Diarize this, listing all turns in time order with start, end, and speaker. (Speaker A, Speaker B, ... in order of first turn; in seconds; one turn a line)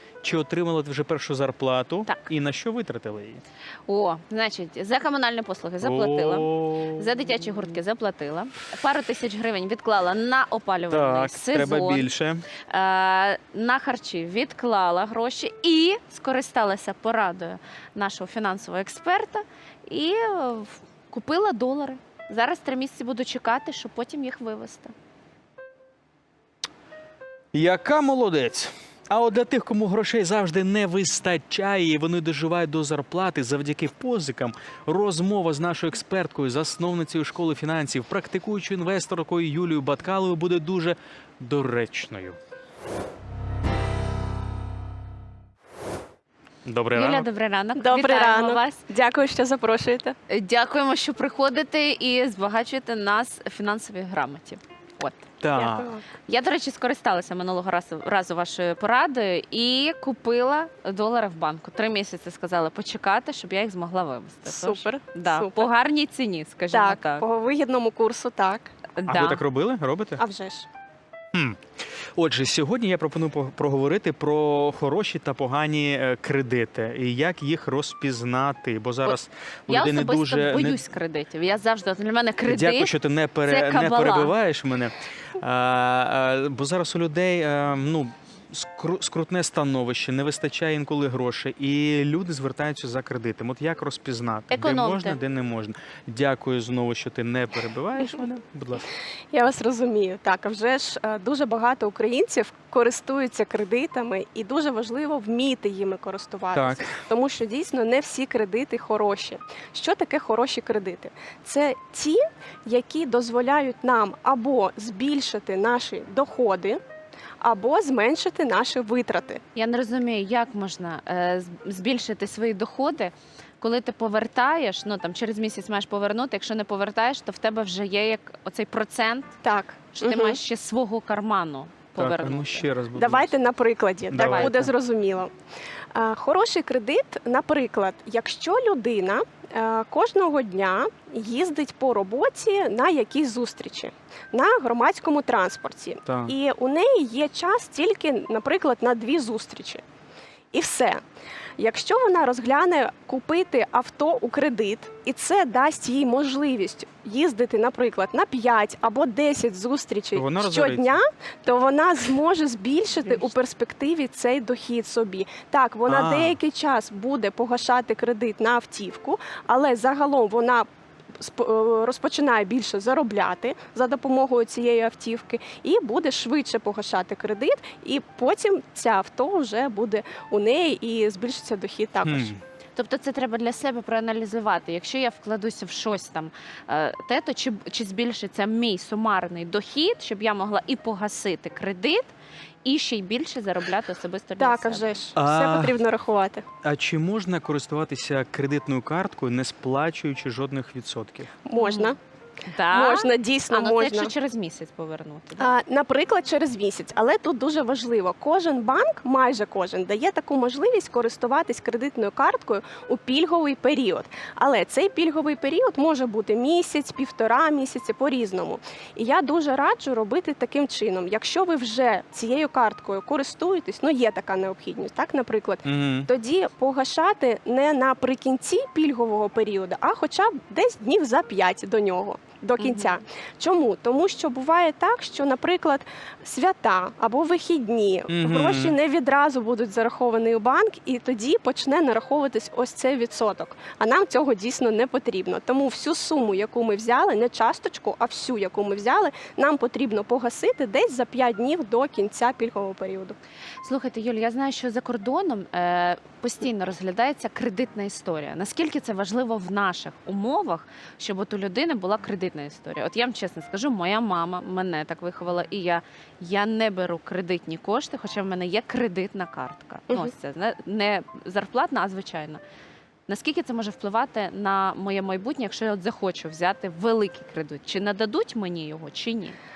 Speaker A: 0.2-3.4
Speaker B: 3.9-12.1
Speaker A: 5.8-7.1
Speaker A: 10.9-12.5
Speaker B: 12.7-24.9
Speaker A: 27.5-42.4
Speaker A: 46.6-47.3
Speaker B: 46.9-48.8
Speaker C: 47.8-50.1
Speaker B: 50.3-55.3
Speaker A: 55.4-55.9
Speaker C: 55.5-56.1
Speaker B: 56.3-67.2
Speaker C: 64.5-65.7
Speaker C: 66.7-68.7
Speaker B: 69.0-69.4
Speaker A: 69.1-70.2
Speaker C: 70.2-70.7
Speaker A: 72.2-80.8
Speaker B: 79.7-82.9
Speaker A: 82.5-98.8
Speaker B: 83.4-84.3
Speaker B: 94.5-95.2
Speaker C: 99.3-116.8
Speaker A: 106.5-106.9
Speaker C: 117.4-119.4
Speaker B: 119.6-129.3
Speaker C: 129.4-130.4
Speaker B: 130.0-132.7
Speaker A: 132.0-133.3
Speaker C: 132.9-135.3
Speaker A: 134.1-134.7
Speaker B: 134.2-134.7
Speaker C: 135.9-149.8
Speaker A: 146.1-146.3
Speaker C: 150.5-151.0
Speaker C: 151.6-170.7
Speaker A: 160.2-161.0
Speaker B: 163.0-163.3
Speaker A: 165.9-166.4
Speaker C: 171.2-182.3
Speaker A: 182.1-182.4
Speaker B: 182.8-192.1
Speaker B: 192.6-194.9
Speaker C: 194.4-196.4
Speaker A: 195.2-195.8
Speaker A: 196.6-201.3
Speaker C: 201.4-202.0
Speaker B: 201.6-201.9
Speaker B: 202.5-205.5
Speaker C: 202.7-204.1
Speaker C: 205.4-253.2
Speaker A: 225.7-226.1
Speaker B: 232.6-232.9
Speaker A: 238.1-238.8
Speaker B: 253.6-272.4
Speaker B: 273.1-279.4